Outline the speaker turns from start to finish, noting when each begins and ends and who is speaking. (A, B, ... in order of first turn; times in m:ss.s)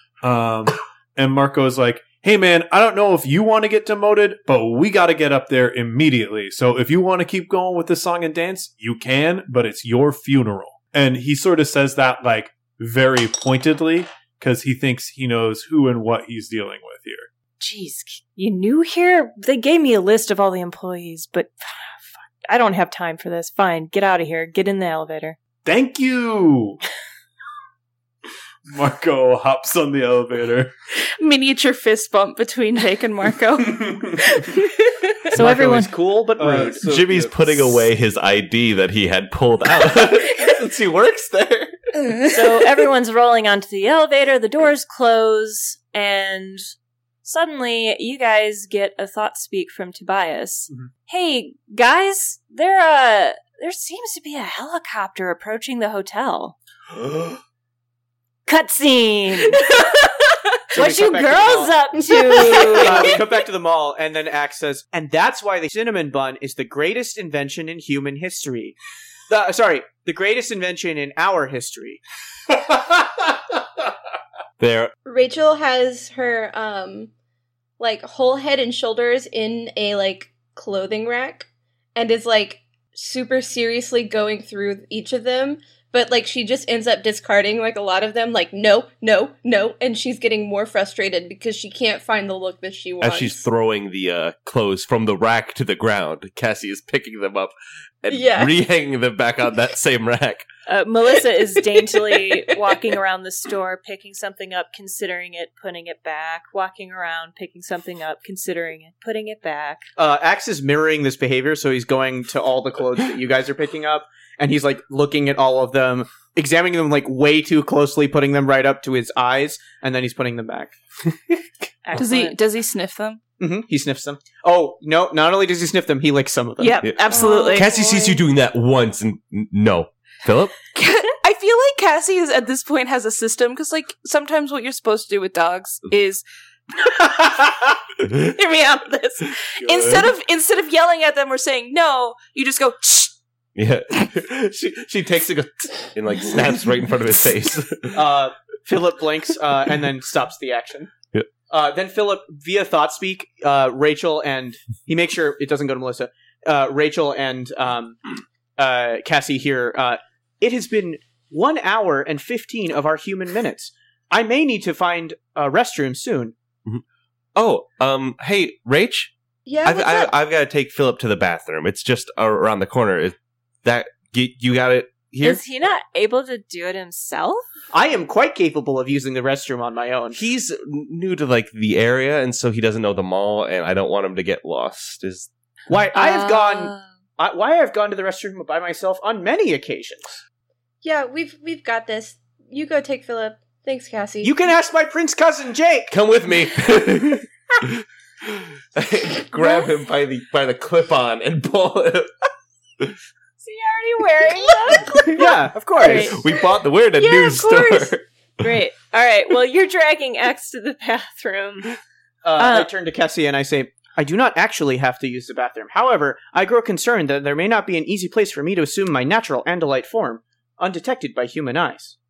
0:00.2-0:17.3 A
0:17.6-0:25.4 B
0:25.6-0:26.8 A
0:28.7-0:30.7 A
0:31.0-0:35.1 C
0:35.3-0:35.9 B
0:35.3-0:36.9 D
0:36.4-0:37.8 A
0:36.8-0:41.7 E
0:40.4-0:40.8 D
0:42.3-0:46.6 B
0:47.2-0:56.6 B
0:58.5-0:59.7 B
0:59.5-1:00.4 C
1:00.7-1:01.8 D
1:00.7-1:03.2 B
1:02.1-1:03.1 F
1:02.6-1:08.8 D
1:09.3-1:12.0 D
1:14.6-1:14.9 E
1:15.1-1:17.1 F
1:17.8-1:33.4 F
1:33.0-1:40.5 E
1:38.1-1:38.6 F
1:40.7-1:49.8 B
1:50.0-2:00.7 D
2:01.8-2:02.4 B
2:02.0-2:03.2 C
2:03.4-2:06.8 D
2:06.6-2:07.7 C
2:06.8-2:10.6 E
2:07.1-2:08.1 B
2:10.8-2:16.2 C
2:16.8-2:17.5 C
2:18.0-2:23.1 C
2:19.6-2:20.1 A
2:23.6-2:28.1 E
2:27.9-2:30.9 D
2:31.5-2:38.0 D
2:38.6-2:46.3 D
2:47.4-2:49.1 E
2:49.5-2:50.1 F
2:49.6-2:55.4 E
2:55.2-2:57.4 B
2:57.7-3:00.2 D
3:00.1-3:05.3 E
3:05.7-3:10.2 D
3:05.9-3:06.9 B
3:10.8-3:14.4 F
3:14.2-3:15.9 D
3:15.9-3:22.1 E
3:23.4-3:25.2 B
3:25.1-3:26.3 D
3:25.8-3:26.2 B
3:25.8-3:28.0 E
3:27.0-3:27.9 F
3:28.4-3:31.8 B
3:32.2-3:42.0 D
3:32.4-3:32.7 B